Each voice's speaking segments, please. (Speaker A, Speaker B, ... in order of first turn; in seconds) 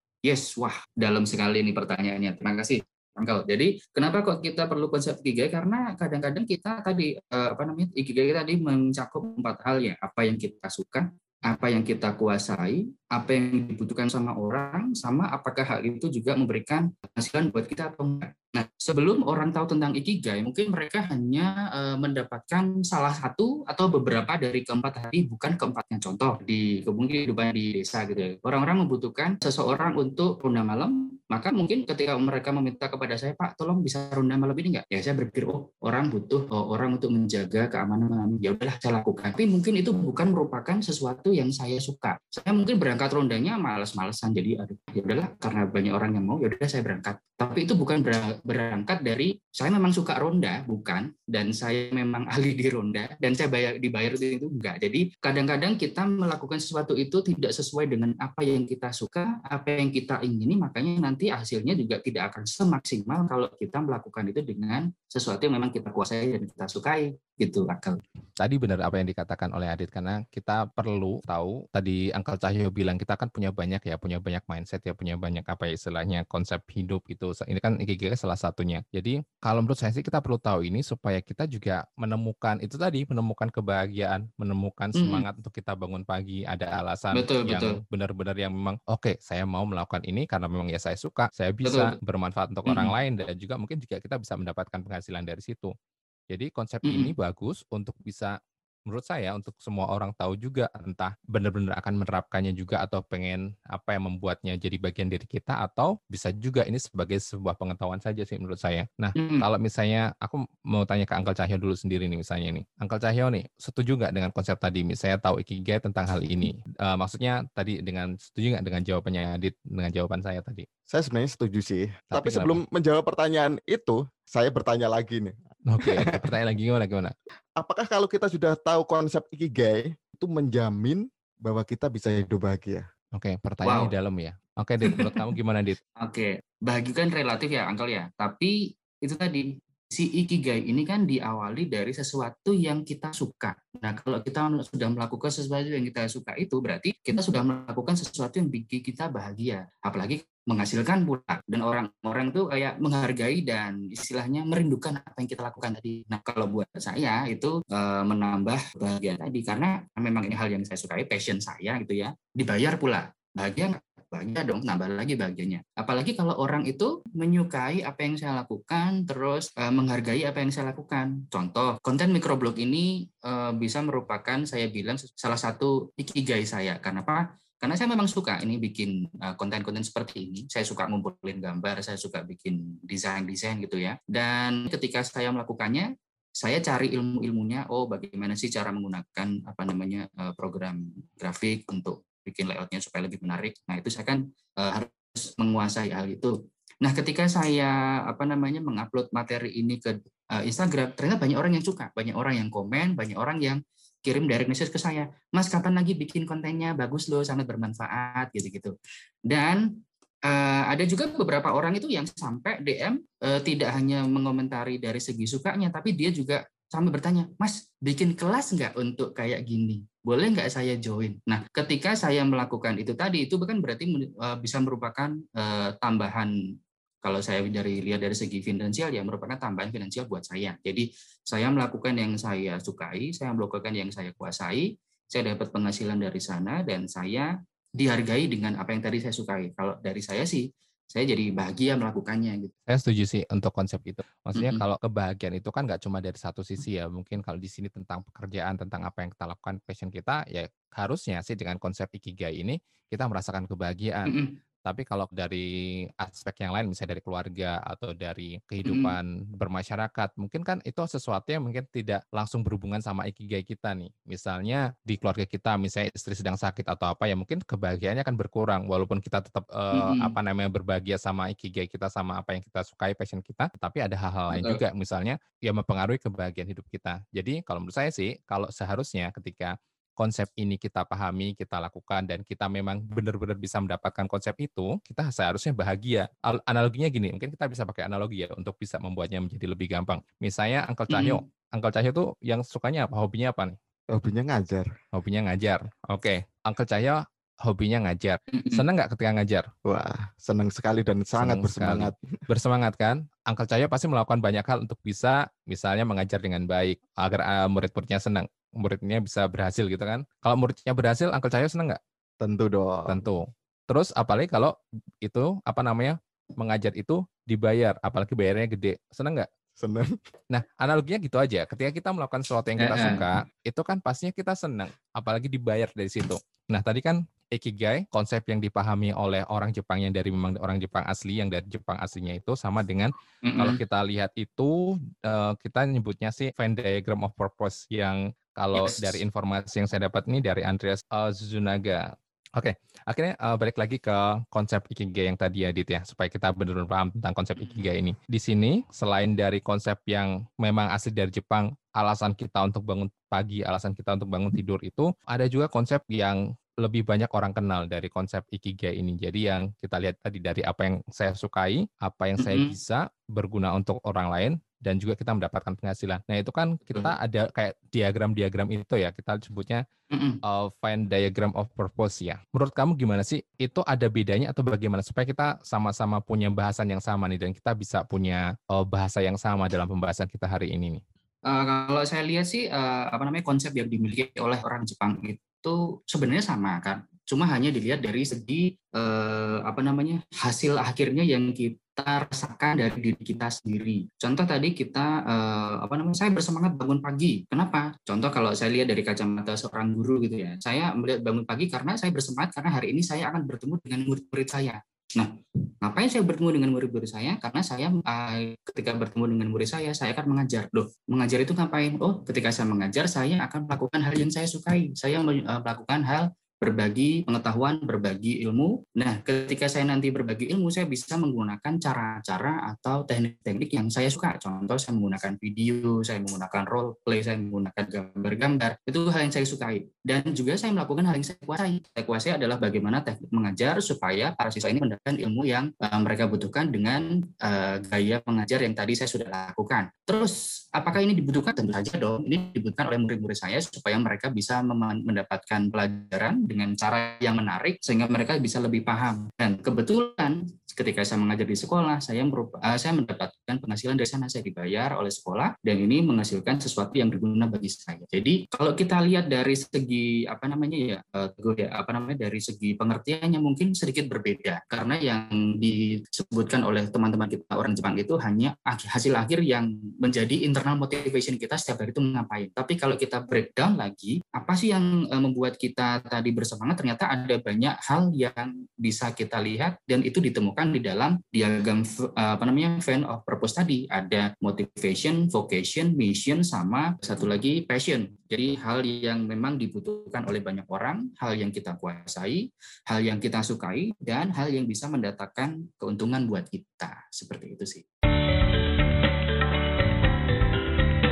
Speaker A: 0.2-68.0, 85.0-85.2, 87.1-87.8, 91.7-92.0, 92.7-92.9, 96.8-97.1, 109.2-109.5, 133.7-133.9, 134.9-135.2, 136.0-185.9, 186.4-208.7, 209.3-209.7, 210.3-226.3, 227.0-242.5, 244.4-244.6, 254.1-254.3, 258.6-258.9, 269.7-270.1, 274.3-274.6, 290.9-291.2, 298.3-298.6, 322.6-323.1, 333.2-333.6, 338.6-339.0, 347.4-347.7, 362.2-362.6, 369.9-370.2, 381.3-405.1, 405.6-497.6
Speaker B: 68.4-95.7, 96.3-98.3, 98.9-120.7, 122.1-122.6, 125.7-127.1, 133.1-135.8, 242.7-254.1, 254.7-293.6, 294.9-299.5, 301.2-311.8, 312.9-319.3, 320.3-369.6, 370.2-380.8
Speaker C: 120.9-126.3, 127.6-132.9, 293.9-294.7, 299.6-302.0, 312.2-313.0, 319.6-320.0